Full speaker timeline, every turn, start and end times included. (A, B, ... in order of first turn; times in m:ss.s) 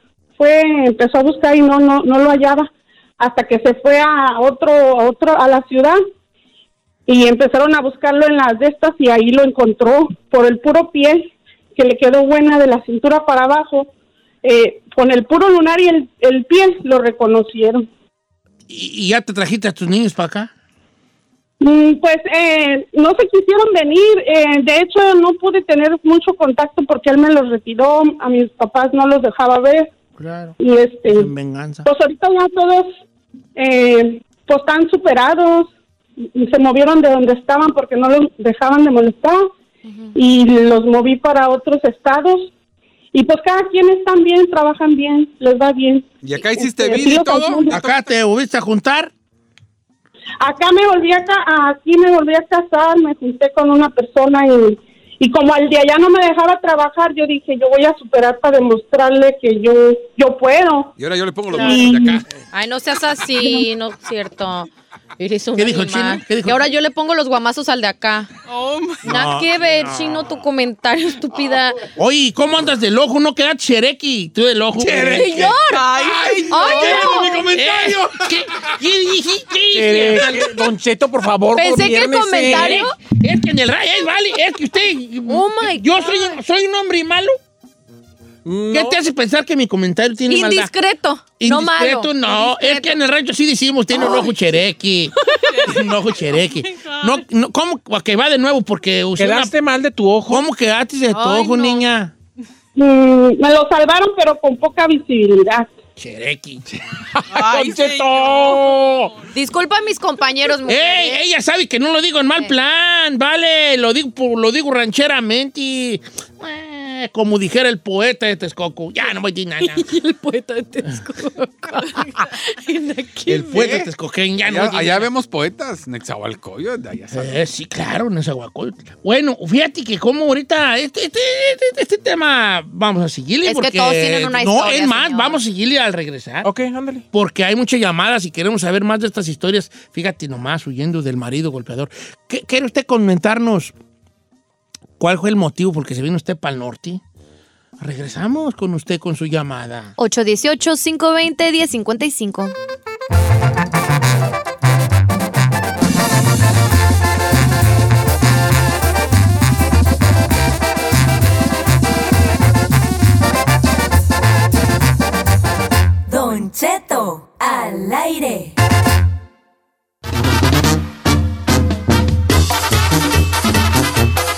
0:00.4-0:06.0 A
0:07.1-0:13.9 A
0:14.4-0:17.8 A
0:18.7-0:20.5 B
0:21.6-0:29.9 A
0:30.2-0:30.6 B
0:30.6-0:31.3 A
0:31.1-0:31.9 B
0:31.8-0:32.9 A
0:33.6-0:35.7 A
0:36.3-0:39.4 A
0:39.8-0:40.2 C
0:40.1-0:42.5 A
0:43.1-0:47.8 A
0:46.2-0:48.1 D
0:47.7-0:49.1 B
0:50.4-1:00.9 A
1:01.0-1:02.3 D
1:01.5-1:01.8 C
1:01.5-1:02.2 A
1:02.5-1:08.3 C
1:03.4-1:03.6 A
1:05.6-1:06.6 B
1:08.5-1:09.0 E
1:09.0-1:10.1 B
1:09.0-1:11.8 C
1:12.0-1:15.5 B
1:15.0-1:15.8 C
1:15.1-1:17.2 E
1:15.1-1:18.8 D
1:16.5-1:17.4 C
1:17.5-1:20.7 B
1:19.7-1:22.9 F
1:21.5-1:23.0 C
1:22.5-1:27.4 B
1:25.3-1:26.3 C
1:28.4-1:29.0 F
1:28.7-1:30.7 B
1:30.3-1:33.0 C
1:31.4-1:35.1 B
1:33.9-1:34.3 C
1:35.2-1:35.5 C
1:35.4-1:37.2 E
1:35.6-1:39.5 B
1:39.2-1:40.5 F
1:40.3-1:42.1 B
1:41.1-1:41.8 C
1:42.8-1:45.7 A
1:46.0-1:46.6 B
1:47.3-1:49.0 E
1:47.3-1:49.1 F
1:49.3-1:51.2 C
1:50.7-1:59.9 B
1:59.6-2:03.7 C
2:03.3-2:05.1 B
2:03.5-2:03.9 D
2:04.4-2:07.4 D
2:07.1-2:16.5 B
2:13.4-2:15.4 C
2:16.4-2:17.0 F
2:17.1-2:23.7 B
2:25.0-2:27.0 B
2:27.8-2:29.9 B
2:30.0-2:32.5 C
2:46.1-2:48.5 G